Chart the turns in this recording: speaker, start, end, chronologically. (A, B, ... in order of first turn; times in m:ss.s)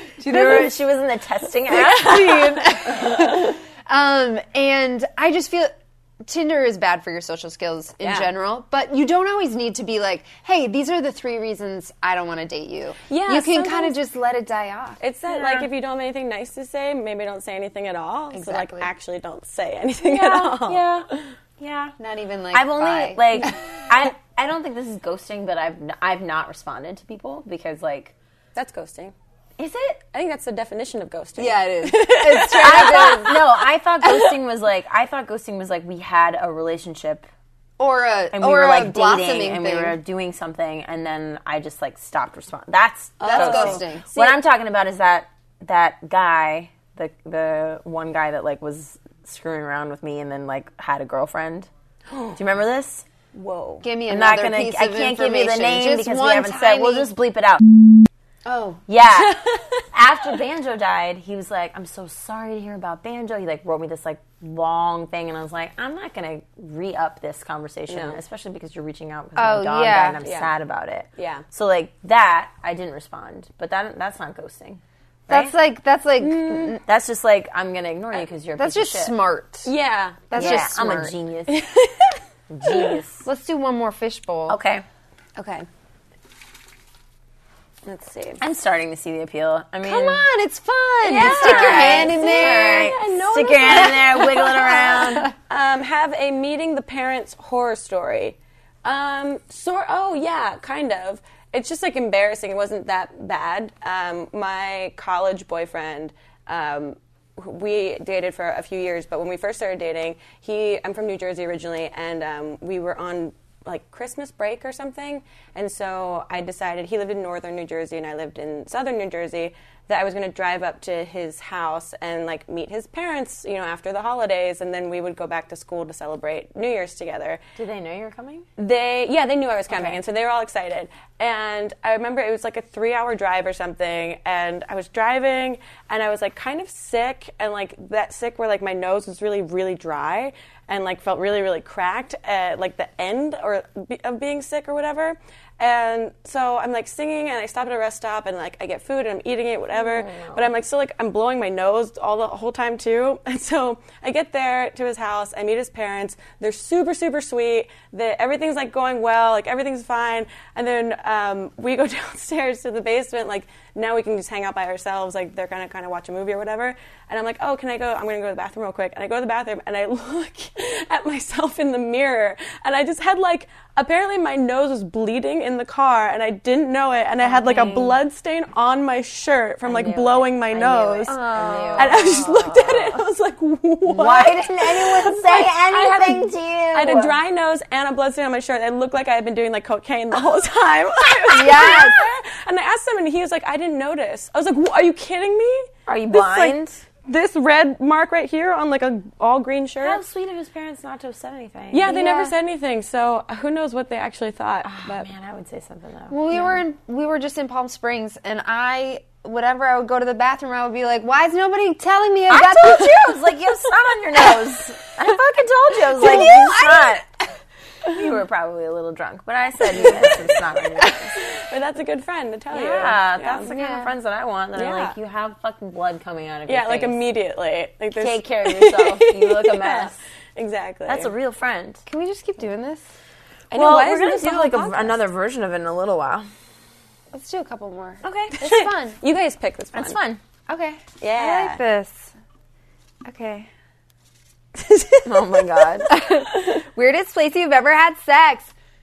0:00.2-0:00.8 A
0:00.2-0:03.1 B
0:01.7-0:05.7 A
0:06.2-0:15.0 A
0:08.0-0:08.3 C
0:13.1-0:14.0 C
0:15.0-0:21.3 C
0:15.3-0:15.7 B
0:18.3-0:18.9 A
0:20.0-0:21.1 B
0:21.6-0:22.0 B
0:22.0-0:23.5 A
0:22.5-0:28.1 B
0:28.6-0:29.1 C
0:29.6-0:30.0 B
0:30.1-0:33.5 C
0:31.4-0:33.4 A
0:32.5-0:37.3 B
0:37.8-0:40.0 A
0:38.3-0:51.7 B
0:43.2-0:44.4 C
0:43.2-0:44.1 A
0:52.1-0:52.4 C
0:52.4-0:53.1 B
0:53.3-0:53.8 C
0:53.8-0:57.1 A
0:54.1-0:57.6 B
0:58.4-0:58.8 A
0:58.9-1:15.6 B
0:59.2-0:59.6 C
1:07.9-1:08.2 C
1:09.4-1:10.2 A
1:10.2-1:10.5 C
1:11.2-1:11.4 C
1:15.3-1:16.8 A
1:16.2-1:16.8 C
1:16.8-1:19.2 B
1:18.6-1:19.7 A
1:19.6-1:20.6 C
1:20.3-1:21.2 A
1:20.4-1:21.6 B
1:21.5-1:23.0 C
1:22.5-1:23.3 B
1:23.2-1:24.6 A
1:24.5-1:24.8 B
1:25.4-1:25.7 A
1:27.8-1:28.4 C
1:28.4-1:30.3 B
1:29.8-1:33.0 A
1:31.0-2:07.4 C
1:31.1-1:35.3 B
1:34.9-1:35.3 A
2:07.6-2:08.5 B
2:08.6-3:01.2 C
2:09.7-2:10.0 B
2:29.8-2:30.5 B
2:57.3-2:57.9 B
2:59.6-3:03.0 B
3:01.1-3:02.0 A
3:01.7-3:20.0 C
3:03.8-3:07.2 B
3:11.3-3:12.1 A
3:15.9-3:16.8 B
3:19.8-3:22.0 B
3:21.7-3:25.1 C
3:21.9-3:22.4 A
3:24.6-3:26.6 B
3:26.1-3:33.3 A
3:32.3-3:37.1 B
3:35.9-3:37.0 A
3:37.8-3:41.2 B
3:39.8-3:40.3 C
3:41.2-3:43.5 C
3:42.5-3:47.0 B
3:43.5-3:43.9 A
3:44.6-3:45.0 C
3:46.5-3:51.1 C
3:48.0-3:50.0 B
3:50.9-3:51.8 B
3:51.9-3:52.9 A
3:53.5-3:55.0 C
3:53.5-3:56.3 B
3:57.1-3:59.0 A
3:58.0-3:58.4 B
3:58.4-4:00.0 C
3:59.7-4:00.2 B
4:00.5-4:02.1 A
4:01.0-4:01.6 C
4:03.0-4:03.5 A
4:05.0-4:06.0 B
4:05.9-4:08.5 A